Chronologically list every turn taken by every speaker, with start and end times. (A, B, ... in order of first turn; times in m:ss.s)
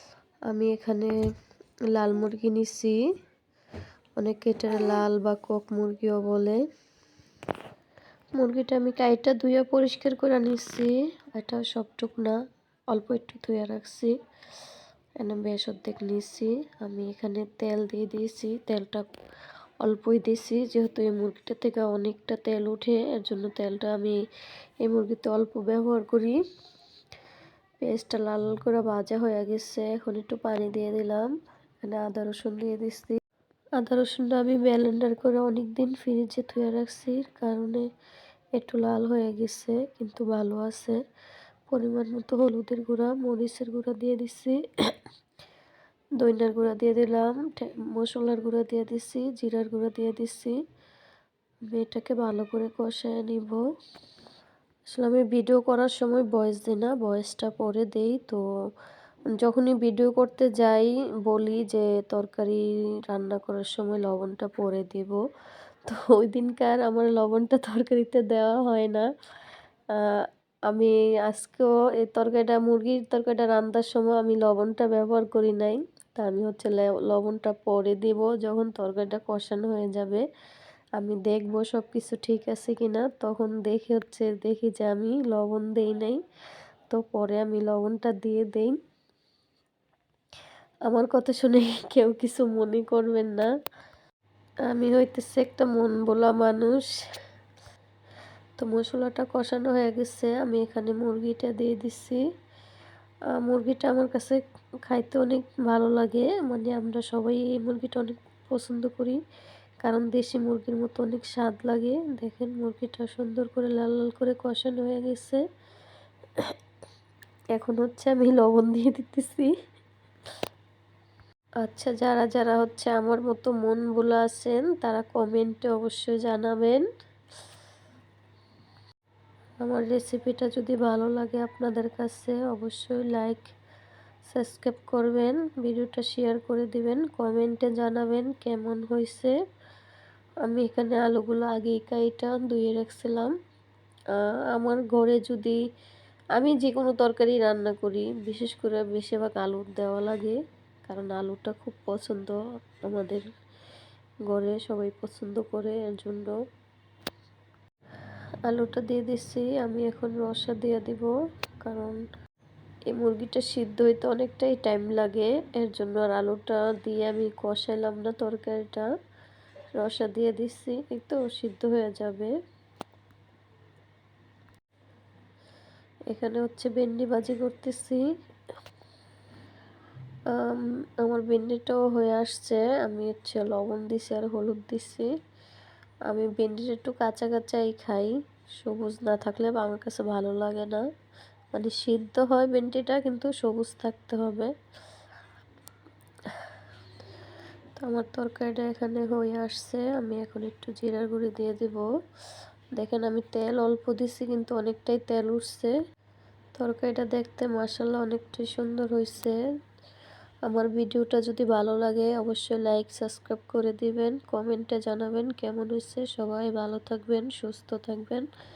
0:00.5-0:01.1 A
0:01.9-0:03.0 A
0:04.2-0:06.6 A
0:08.4-0:12.4 A
0:12.9-0:14.2 A
0:15.2-0:19.1 A
0:19.8-0:24.2 A
0:24.8-0:26.4 A
0:27.8-0:31.3 A
0:31.8-0:33.2 A
0:33.8-0:37.8 A
0:38.6-0:41.0 A
0:41.7-0:45.0 A
0:46.2-0:50.6 A
0:51.7-0:53.6 A
0:54.9-0:58.4 A
0:59.4-1:05.2 A
1:05.8-1:09.0 A
1:09.9-1:20.2 A
1:21.0-1:26.2 A
1:26.9-1:28.8 A
1:30.8-1:33.5 A
1:34.7-1:36.8 A
1:38.6-1:42.2 A
1:43.3-1:49.2 A
1:49.8-1:55.4 A
1:57.6-1:59.5 A
2:01.6-2:06.8 A
2:09.6-2:13.5 A
2:14.2-2:19.3 A
2:20.4-2:23.3 A
2:24.1-2:25.6 A
2:26.4-2:33.2 A
2:34.3-2:36.4 A
2:38.4-2:41.1 A
2:41.6-2:42.0 A
2:42.9-2:48.8 A
2:49.8-2:52.3 A
2:56.1-2:58.0 A
3:00.3-3:05.1 A
3:06.1-3:10.8 A
3:11.5-3:14.5 A
3:17.8-3:21.8 A
3:22.8-3:25.7 A
3:26.6-3:29.4 A
3:30.5-3:38.3 A